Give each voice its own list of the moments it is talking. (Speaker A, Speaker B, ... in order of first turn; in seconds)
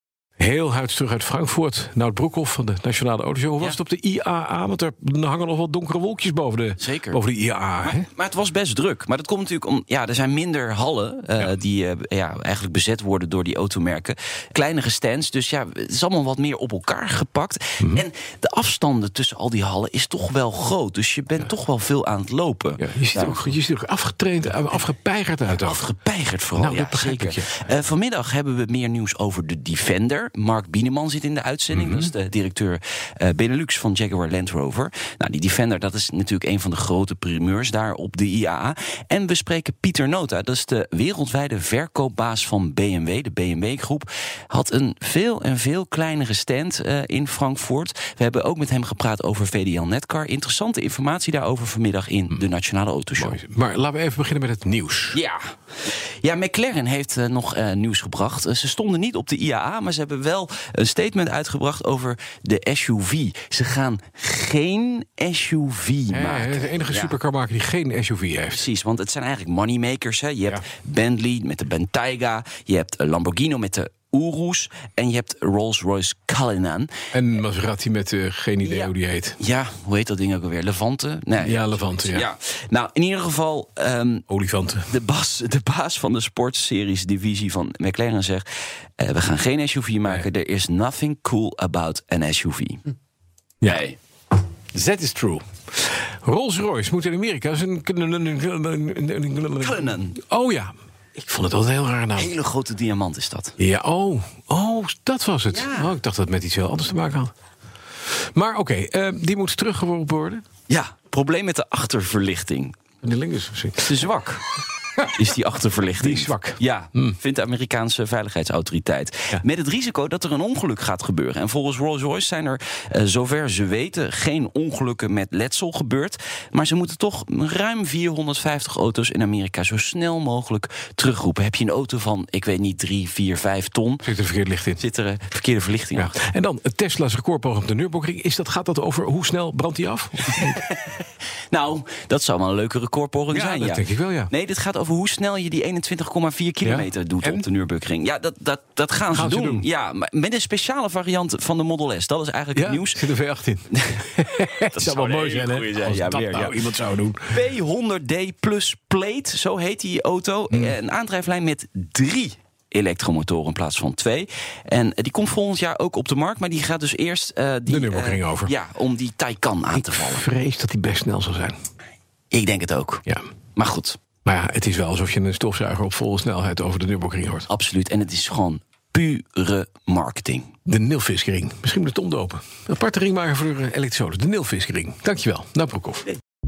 Speaker A: 0.4-8.1, 17.8-18.1, 22.8-25.9, 26.6-27.5, 53.2-55.2, 66.1-68.6, 77.1-79.4, 81.4-82.3, 84.3-84.9, 94.7-102.3, 103.6-107.3, 108.3-110.4, 113.0-114.0, 116.0-117.2, 134.0-134.8, 136.0-140.6, 143.3-144.3, 146.6-147.5, 149.1-149.7, 152.6-157.4, 167.7-168.5, 169.7-171.6, 174.2-177.5, 180.7-186.1
Speaker B: 6.8-7.2, 7.8-23.5, 25.5-53.4, 55.1-67.2, 68.5-76.9, 78.6-84.2, 84.9-88.5, 89.0-92.8, 93.6-94.0, 99.6-100.2, 102.2-103.5, 105.5-106.0, 110.7-112.8, 113.8-114.4, 115.1-134.1, 134.8-136.1, 140.4-153.0, 153.7-156.7, 157.3-170.3, 172.3-173.0, 173.6-174.0, 177.5-180.5